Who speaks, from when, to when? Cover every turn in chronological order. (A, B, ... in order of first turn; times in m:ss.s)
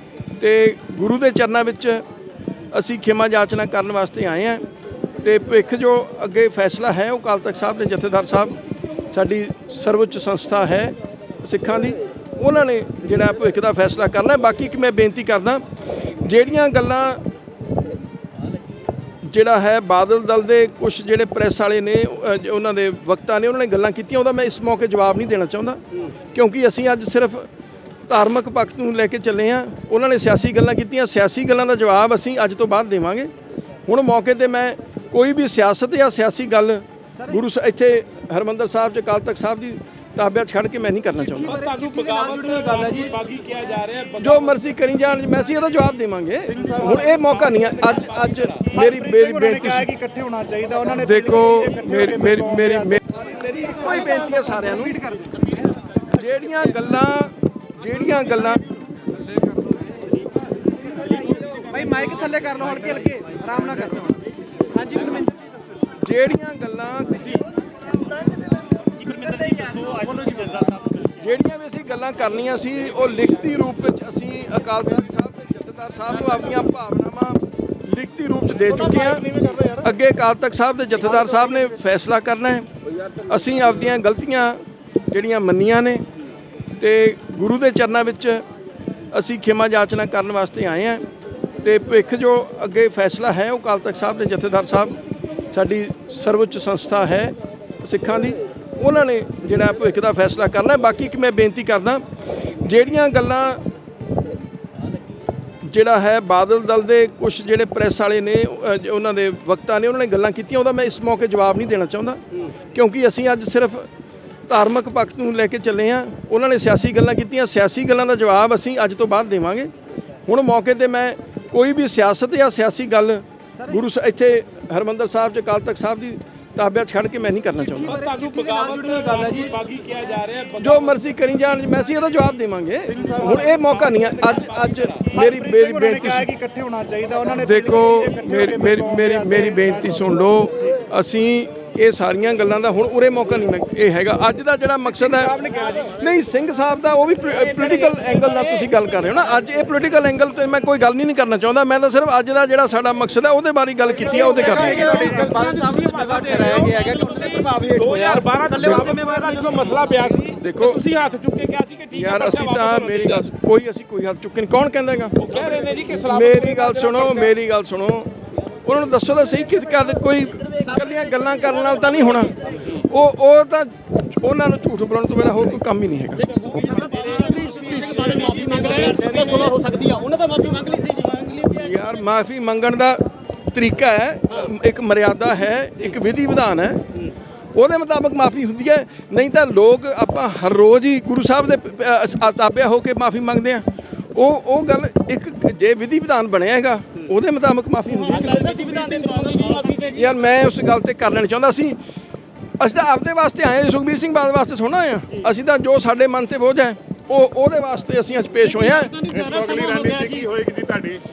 0:00.4-0:02.0 A
0:02.7-0:04.6 A
0:05.2-0:08.6 A
0:09.1-0:15.6 A
0:16.2-0:17.2 A
0:19.2-0:27.5 A
0:28.1-0:33.3 A
0:33.8-0:41.6 A
0:41.3-0:43.1 B
0:41.5-0:44.5 C
0:44.2-0:49.9 A
0:46.5-0:47.0 D
0:47.1-0:48.6 C
0:48.7-0:53.0 D
0:51.0-0:55.0 A
0:54.9-0:55.3 B
0:56.1-0:58.6 A
1:01.0-1:04.2 B
1:04.7-1:05.3 B
1:06.0-1:07.4 A
1:09.0-1:10.9 B
1:11.2-1:22.7 A
1:18.8-1:19.8 D
1:23.2-1:26.0 A
1:26.8-1:28.4 A
1:29.1-1:31.0 A
1:31.6-1:35.0 A
1:35.5-1:42.0 A
1:42.6-1:43.6 A
1:45.6-1:52.2 A
1:52.7-1:53.9 A
1:54.5-1:59.7 A
2:00.2-2:08.0 A
2:07.6-2:09.5 B
2:07.9-2:10.9 C
2:10.6-2:16.3 A
2:12.8-2:13.5 D
2:13.5-2:15.1 C
2:15.1-2:20.0 D
2:17.4-2:35.1 A
2:24.9-2:25.9 D
2:34.1-2:39.6 B
2:34.5-2:35.2 D
2:34.9-2:43.2 C
2:40.3-2:40.8 A
2:41.9-2:45.3 A
2:45.2-2:47.3 C
2:46.0-2:48.1 A
2:48.6-2:56.3 A
2:56.4-3:01.5 B
2:56.5-2:59.5 C
3:01.4-3:06.9 A
3:07.5-3:18.6 A
3:18.1-3:19.7 C
3:18.1-3:20.1 B
3:19.9-3:21.8 A
3:22.6-3:29.0 A
3:28.8-3:30.4 B
3:29.3-3:31.0 C